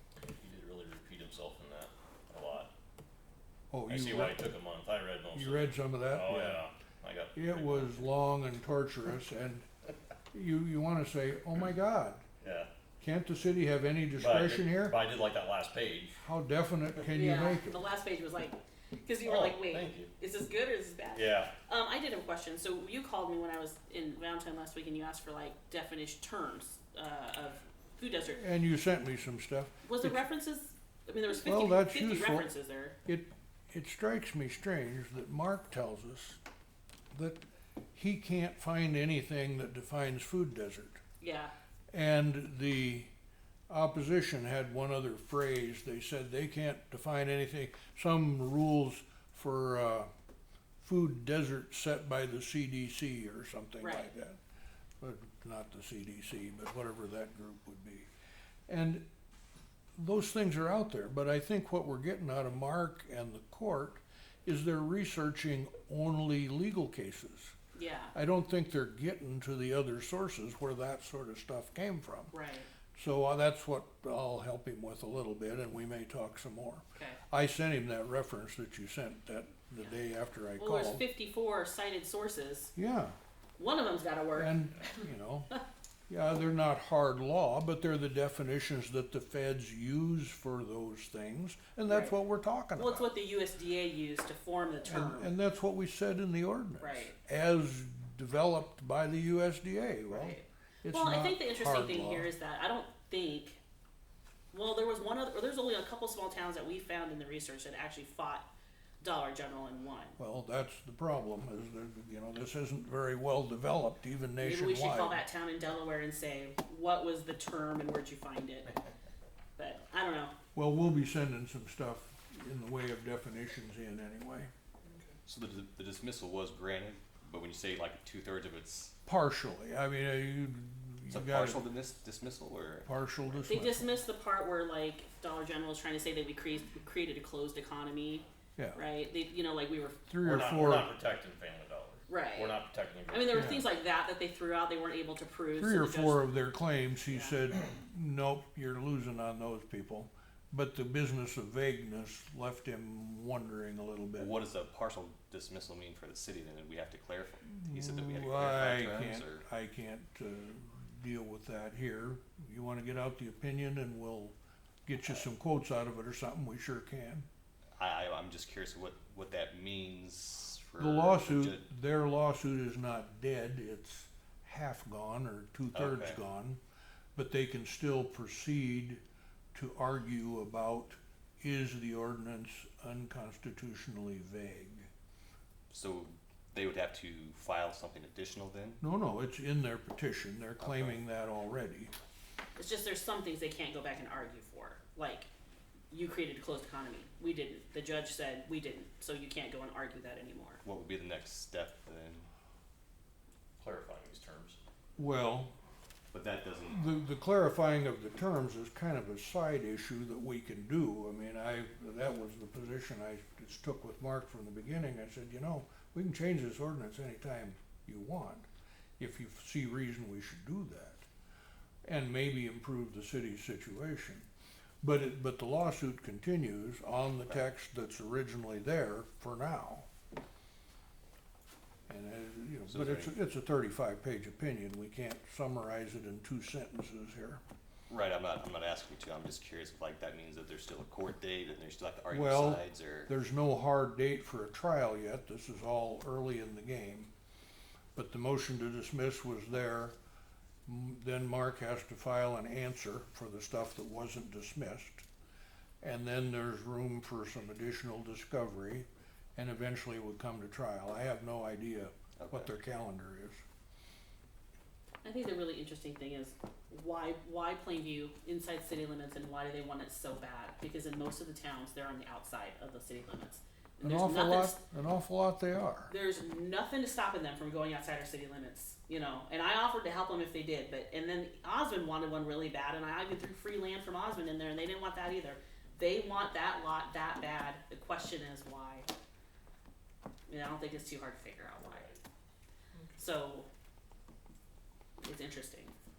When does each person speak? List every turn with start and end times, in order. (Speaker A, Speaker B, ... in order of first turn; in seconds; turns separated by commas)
Speaker A: 0.4-2.7, Speaker B: 3.7-4.5, Speaker A: 3.9-8.0, Speaker B: 5.3-6.7, Speaker B: 7.3-9.7, Speaker B: 10.3-12.2, Speaker A: 12.4-12.7, Speaker B: 13.0-15.0, Speaker A: 14.2-16.1, Speaker B: 16.2-17.8, Speaker C: 17.1-28.4, Speaker D: 19.2-20.0, Speaker B: 28.3-30.2, Speaker C: 29.8-33.0, Speaker B: 31.4-32.5, Speaker B: 33.0-36.4, Speaker B: 37.1-37.4, Speaker B: 37.9-41.0, Speaker C: 41.2-41.5, Speaker B: 41.9-43.1, Speaker B: 43.7-50.1, Speaker B: 50.8-54.4, Speaker C: 53.8-54.1, Speaker B: 55.0-58.1, Speaker B: 58.7-59.1, Speaker B: 60.0-67.5, Speaker C: 67.7-68.1, Speaker B: 68.1-72.3, Speaker C: 72.3-72.7, Speaker B: 72.9-81.0, Speaker C: 80.6-82.7, Speaker B: 82.8-83.2, Speaker C: 83.6-84.6, Speaker B: 84.3-85.6, Speaker B: 86.1-93.1, Speaker C: 91.9-92.1, Speaker C: 92.7-95.3, Speaker B: 94.8-102.3, Speaker C: 96.8-97.2, Speaker C: 100.1-103.6, Speaker C: 104.5-108.5, Speaker C: 109.0-110.2, Speaker B: 110.2-115.2, Speaker C: 114.4-118.8, Speaker C: 119.6-120.3, Speaker B: 120.5-124.5, Speaker D: 125.2-129.0, Speaker B: 129.1-131.7, Speaker D: 131.1-133.4, Speaker B: 132.8-134.0, Speaker C: 133.5-140.5, Speaker B: 140.1-140.9, Speaker A: 140.2-143.6, Speaker C: 142.1-146.3, Speaker B: 143.3-143.7, Speaker B: 145.6-154.4, Speaker C: 147.1-147.4, Speaker D: 154.2-159.4, Speaker B: 157.5-164.3, Speaker B: 164.9-167.2, Speaker D: 167.8-171.7, Speaker B: 170.8-176.6, Speaker D: 175.7-176.2, Speaker B: 177.2-179.0, Speaker B: 179.5-184.9, Speaker D: 185.7-188.8, Speaker B: 188.8-191.9, Speaker D: 190.6-191.0, Speaker C: 192.6-195.3, Speaker C: 195.9-200.6, Speaker D: 200.6-202.3, Speaker A: 203.6-204.6, Speaker B: 205.0-205.5, Speaker D: 206.1-206.8, Speaker B: 206.7-218.5, Speaker B: 219.0-221.1, Speaker B: 221.8-224.3, Speaker B: 224.8-229.9, Speaker B: 231.9-237.4, Speaker D: 232.7-233.1, Speaker D: 237.9-243.1, Speaker B: 242.1-247.1, Speaker B: 247.9-249.9, Speaker B: 250.7-255.1, Speaker B: 255.8-263.4, Speaker D: 262.2-262.5, Speaker C: 265.0-274.6, Speaker B: 273.8-275.9, Speaker C: 275.9-288.9, Speaker C: 290.3-291.9, Speaker C: 292.9-293.5, Speaker C: 295.0-295.7